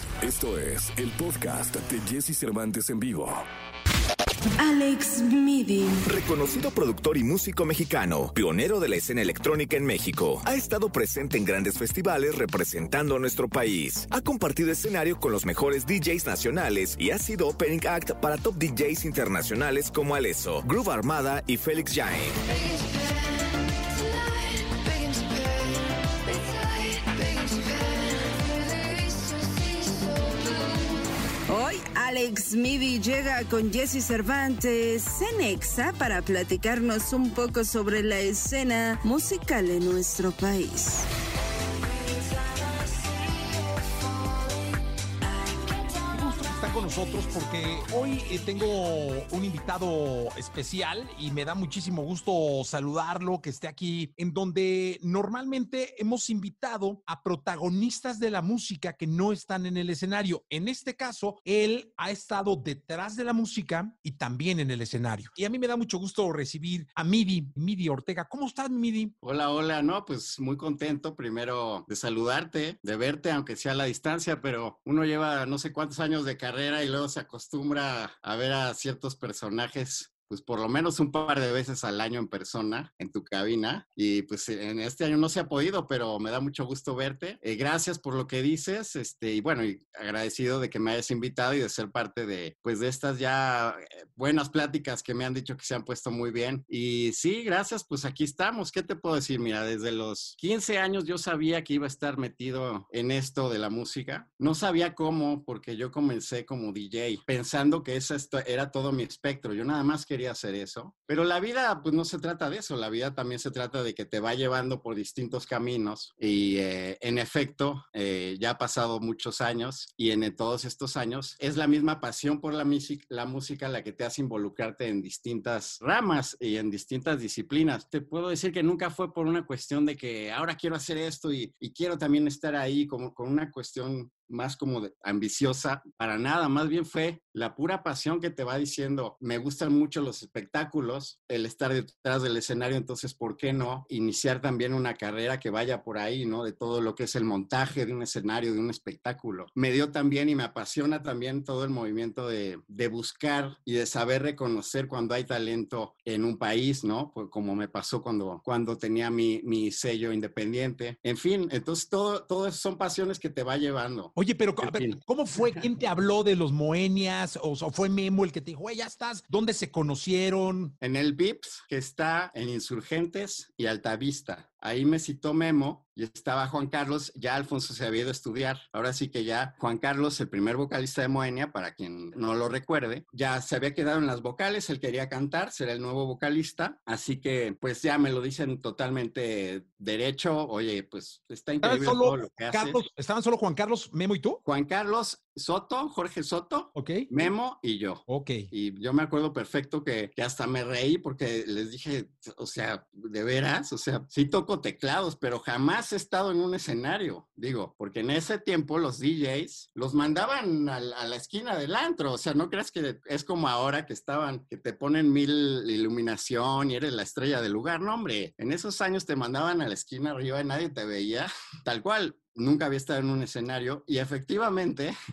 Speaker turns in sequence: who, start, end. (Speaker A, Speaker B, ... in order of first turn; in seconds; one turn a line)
Speaker A: 0.2-3.4
Speaker B: 4.6-6.0
Speaker C: 6.0-22.4
Speaker B: 22.7-23.0
Speaker B: 24.0-25.7
Speaker B: 26.3-30.3
Speaker B: 31.5-41.1
Speaker D: 46.1-69.1
Speaker E: 69.2-165.5
Speaker D: 164.2-170.7
Speaker E: 170.8-192.8
Speaker D: 191.6-194.4
Speaker E: 194.4-224.9
Speaker D: 196.8-197.0
Speaker D: 198.1-198.4